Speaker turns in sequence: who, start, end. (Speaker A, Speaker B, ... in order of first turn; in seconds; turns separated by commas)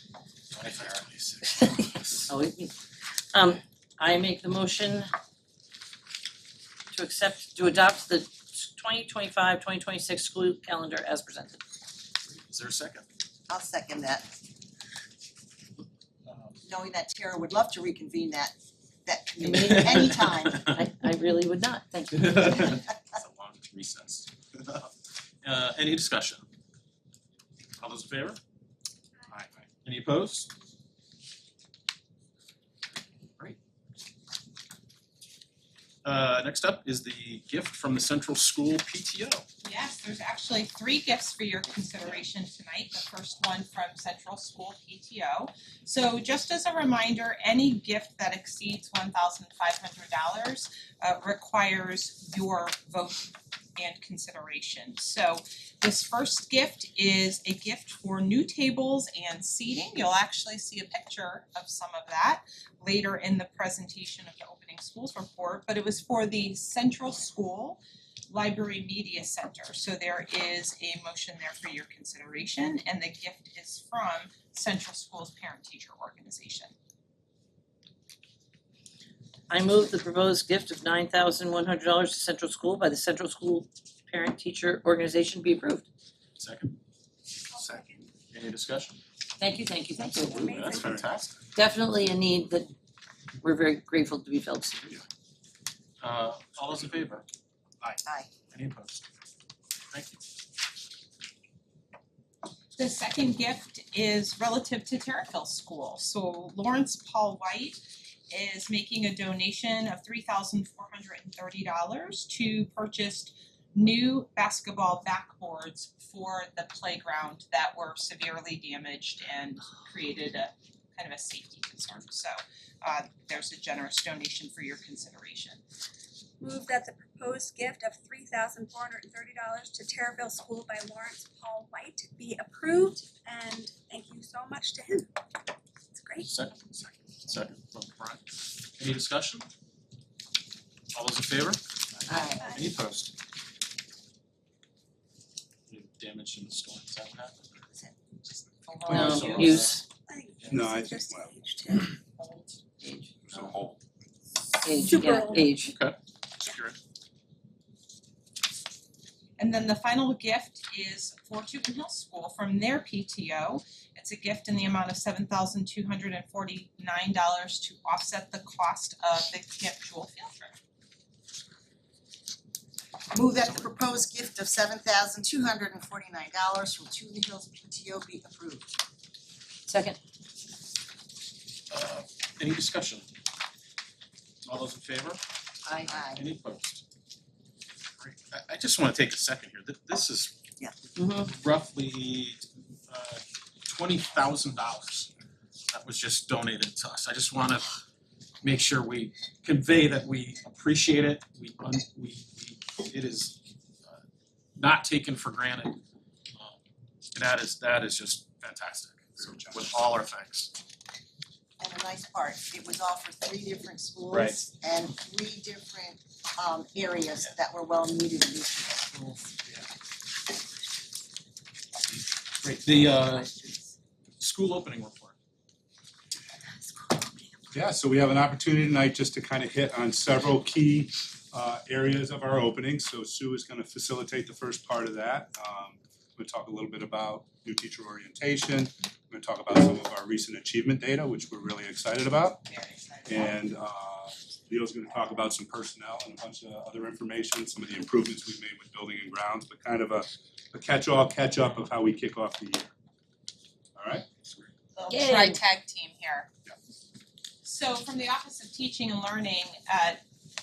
Speaker A: 0.5-2.3, Speaker B: 2.3-2.7, Speaker B: 3.3-5.1, Speaker B: 6.9-11.6, Speaker A: 12.3-13.1, Speaker C: 13.5-14.3, Speaker A: 16.3-16.6, Speaker C: 16.6-20.7, Speaker B: 19.4-22.8, Speaker A: 19.7-20.7, Speaker A: 22.1-24.9, Speaker A: 25.4-26.4, Speaker A: 27.8-28.4, Speaker A: 29.3-30.5, Speaker A: 36.0-39.5, Speaker D: 39.6-76.7, Speaker B: 79.5-85.8, Speaker A: 86.4-86.8, Speaker E: 87.5-88.1, Speaker A: 87.5-89.0, Speaker B: 89.4-90.5, Speaker E: 90.0-91.1, Speaker A: 90.0-91.4, Speaker F: 90.7-91.0, Speaker B: 91.5-92.7, Speaker B: 93.4-95.0, Speaker A: 96.0-97.3, Speaker A: 97.8-99.0, Speaker A: 99.9-100.2, Speaker D: 102.8-125.6, Speaker E: 126.4-135.1, Speaker E: 135.9-136.3, Speaker A: 136.2-139.5, Speaker A: 140.9-143.1, Speaker B: 142.1-142.3, Speaker E: 142.1-142.7, Speaker A: 145.7-147.6, Speaker C: 147.7-148.0, Speaker D: 148.7-149.5, Speaker B: 148.9-149.8, Speaker F: 148.9-149.2, Speaker A: 148.9-149.8, Speaker E: 150.1-152.0, Speaker F: 150.5-151.4, Speaker B: 152.2-153.2, Speaker F: 153.3-153.6, Speaker A: 153.3-153.8, Speaker B: 154.6-155.7, Speaker E: 154.7-155.5, Speaker A: 155.6-156.8, Speaker D: 159.4-170.6, Speaker C: 173.1-178.7, Speaker B: 179.7-180.0, Speaker A: 181.7-183.1, Speaker A: 184.4-185.2, Speaker B: 185.7-185.9, Speaker A: 185.8-186.8, Speaker C: 185.9-186.2, Speaker A: 188.0-190.4, Speaker B: 191.0-191.3, Speaker A: 191.2-195.1, Speaker A: 195.7-197.8, Speaker A: 198.4-204.0, Speaker A: 204.6-205.8, Speaker A: 207.1-210.5, Speaker F: 209.2-209.7, Speaker C: 211.6-218.8, Speaker A: 214.1-214.4, Speaker A: 218.7-219.7, Speaker A: 221.9-223.3, Speaker C: 222.6-223.7, Speaker A: 224.2-225.2, Speaker C: 226.7-227.2, Speaker F: 227.5-242.5, Speaker D: 242.5-243.4, Speaker F: 243.1-252.7, Speaker F: 253.8-254.1, Speaker D: 254.8-256.3, Speaker B: 254.9-255.4, Speaker D: 257.4-260.0